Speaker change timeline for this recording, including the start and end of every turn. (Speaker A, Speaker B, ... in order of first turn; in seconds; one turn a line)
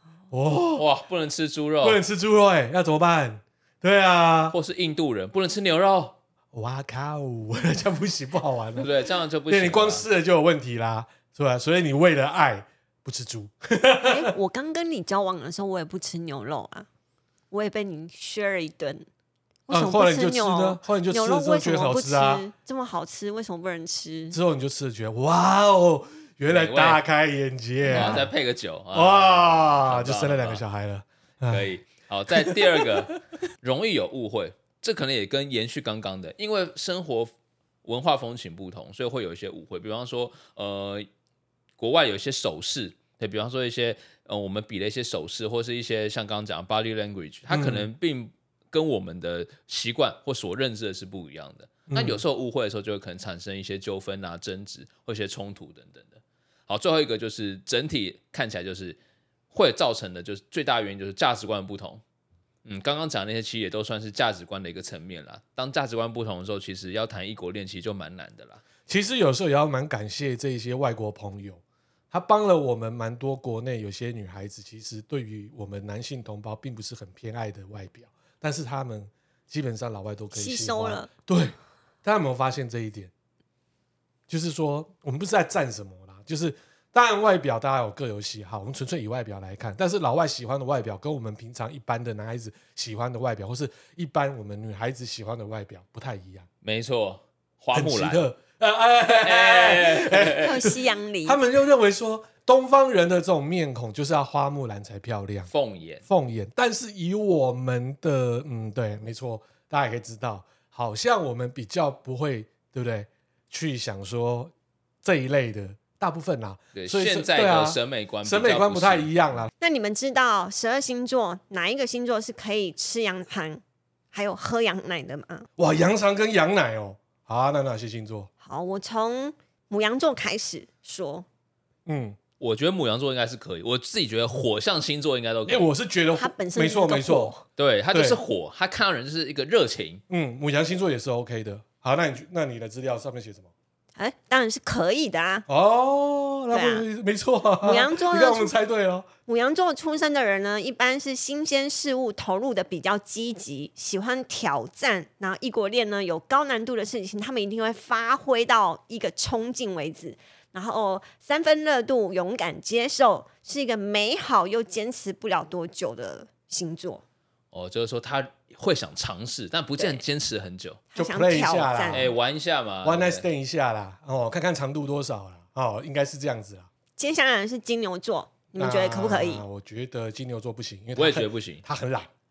Speaker A: 0.3-0.8
Speaker B: 0.7-2.0
Speaker A: 1.8-4.5
Speaker B: 4.5-6.2
Speaker A: 6.5-8.9
Speaker B: 8.8-10.0
Speaker A: 9.5-14.3
Speaker C: 14.0-16.9
Speaker C: 17.5-19.1
Speaker C: 19.7-24.4
Speaker A: 19.7-22.4
Speaker A: 24.3-28.3
Speaker B: 26.5-27.0
Speaker C: 27.9-28.2
Speaker B: 27.9-30.6
Speaker A: 28.9-31.7
Speaker B: 31.5-37.3
Speaker A: 32.3-33.0
Speaker B: 37.8-41.1
Speaker B: 41.8-59.0
Speaker A: 47.5-47.9
Speaker A: 51.9-52.2
Speaker B: 59.5-62.0
Speaker B: 62.6-68.6
Speaker A: 68.9-83.1
Speaker C: 80.3-81.1
Speaker A: 84.3-96.5
Speaker B: 96.6-98.3
Speaker A: 97.7-105.5
Speaker B: 99.2-100.6
Speaker C: 100.3-101.4
Speaker B: 105.5-106.0
Speaker A: 106.0-119.5
Speaker B: 116.7-119.1
Speaker C: 119.6-125.5
Speaker A: 125.6-128.3
Speaker C: 128.4-131.2
Speaker A: 131.8-132.2
Speaker B: 132.4-135.7
Speaker A: 135.5-137.3
Speaker C: 136.2-137.4
Speaker B: 137.6-140.0
Speaker A: 137.9-138.2
Speaker A: 140.1-143.5
Speaker C: 144.0-145.4
Speaker A: 145.5-149.1
Speaker C: 146.5-146.8
Speaker C: 147.6-148.5
Speaker C: 149.3-167.0
Speaker B: 167.5-170.8
Speaker C: 169.8-170.0
Speaker C: 170.9-172.1
Speaker A: 170.9-172.1
Speaker B: 171.9-173.2
Speaker A: 172.8-176.7
Speaker C: 177.0-179.4
Speaker A: 178.6-182.1
Speaker B: 180.9-181.6